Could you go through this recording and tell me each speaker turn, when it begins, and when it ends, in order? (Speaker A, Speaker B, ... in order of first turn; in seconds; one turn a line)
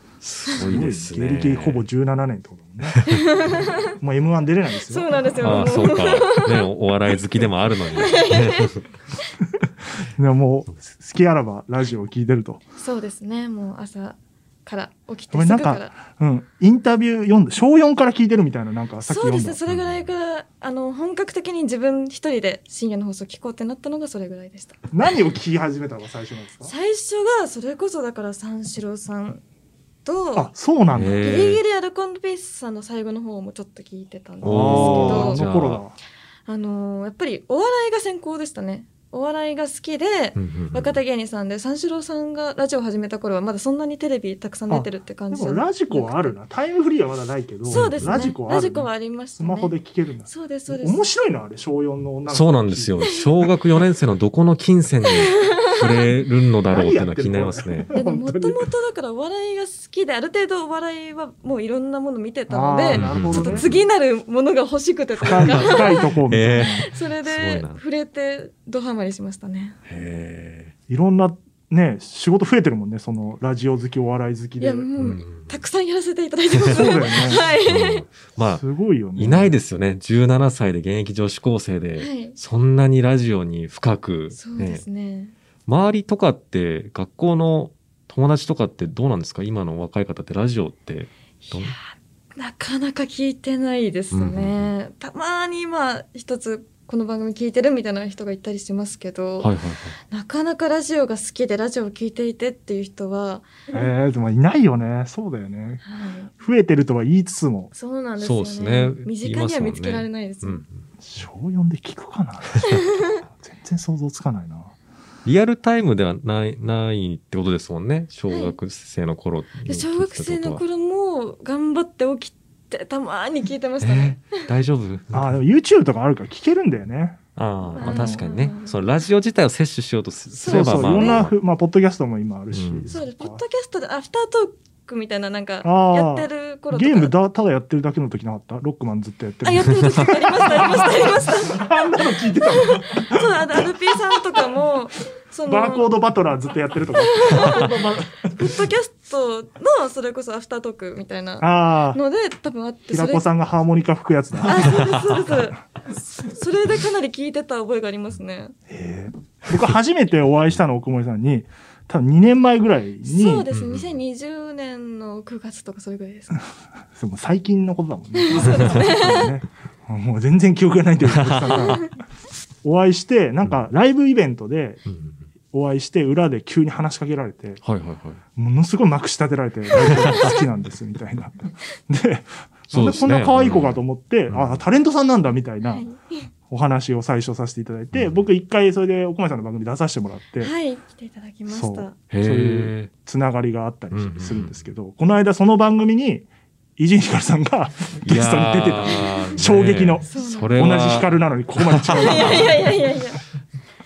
Speaker A: 0.2-1.8
Speaker B: 0.6-3.0
Speaker A: 2.9-3.2
Speaker C: 3.1-3.9
Speaker B: 4.0-5.9
Speaker C: 4.9-6.7
Speaker A: 5.4-8.8
Speaker C: 7.9-8.8
Speaker B: 10.2-12.6
Speaker C: 12.8-15.9
Speaker B: 15.3-19.6
Speaker C: 19.1-24.9
Speaker A: 19.7-20.1
Speaker B: 24.9-26.7
Speaker C: 26.6-29.4
Speaker C: 30.1-30.5
Speaker B: 30.4-31.2
Speaker A: 30.9-31.6
Speaker C: 31.2-35.4
Speaker A: 34.4-35.8
Speaker B: 34.4-36.0
Speaker C: 36.5-46.3
Speaker A: 40.4-41.0
Speaker B: 44.7-53.0
Speaker C: 47.7-49.7
Speaker A: 47.7-48.3
Speaker C: 50.3-51.0
Speaker A: 52.3-57.9
Speaker C: 53.0-53.3
Speaker C: 55.0-56.0
Speaker B: 56.7-58.6
Speaker C: 57.9-69.8
Speaker B: 62.5-63.7
Speaker A: 62.9-63.9
Speaker A: 65.2-67.8
Speaker B: 65.2-66.9
Speaker A: 69.9-70.7
Speaker B: 70.9-74.9
Speaker C: 74.6-78.0
Speaker A: 75.0-75.5
Speaker A: 76.6-76.9
Speaker B: 76.6-77.5
Speaker A: 77.6-78.6
Speaker B: 78.5-79.6
Speaker A: 79.2-84.8
Speaker C: 82.0-82.4
Speaker C: 84.3-85.3
Speaker A: 85.7-91.8
Speaker C: 91.5-99.5
Speaker A: 94.1-94.7
Speaker A: 99.4-100.0
Speaker C: 100.1-103.9
Speaker B: 103.7-105.8
Speaker C: 105.8-106.3
Speaker B: 106.4-107.7
Speaker C: 107.7-110.6
Speaker A: 108.2-110.8
Speaker B: 111.0-114.7
Speaker C: 112.7-113.1
Speaker A: 115.2-120.6
Speaker C: 118.3-118.6
Speaker C: 119.7-124.4
Speaker A: 123.8-125.4
Speaker B: 125.1-127.2
Speaker A: 127.4-131.3
Speaker C: 127.8-128.8
Speaker B: 127.8-128.2
Speaker C: 130.3-131.3
Speaker B: 130.5-133.4
Speaker A: 132.5-132.9
Speaker C: 132.9-137.1
Speaker B: 135.6-144.4
Speaker C: 139.4-145.9
Speaker B: 145.5-148.5
Speaker C: 146.9-153.3
Speaker B: 151.4-152.0
Speaker B: 152.9-155.0
Speaker C: 154.4-155.6
Speaker C: 156.2-158.6
Speaker B: 158.7-163.4
Speaker C: 163.1-166.4
Speaker A: 163.5-164.0
Speaker B: 167.0-171.9
Speaker C: 168.2-169.3
Speaker A: 171.2-171.8
Speaker C: 171.6-171.8
Speaker B: 172.6-174.8
Speaker A: 174.9-175.2
Speaker B: 175.5-177.6
Speaker A: 177.6-178.2
Speaker B: 178.4-185.9
Speaker C: 179.8-180.4
Speaker A: 180.1-180.3
Speaker A: 182.7-184.6
Speaker C: 185.6-186.3
Speaker B: 186.5-190.5
Speaker A: 187.9-188.2
Speaker C: 190.4-192.0
Speaker B: 191.5-196.3
Speaker A: 192.1-192.9
Speaker A: 193.9-194.7
Speaker B: 196.8-202.7
Speaker A: 198.1-202.7
Speaker C: 200.1-200.7
Speaker C: 202.0-203.2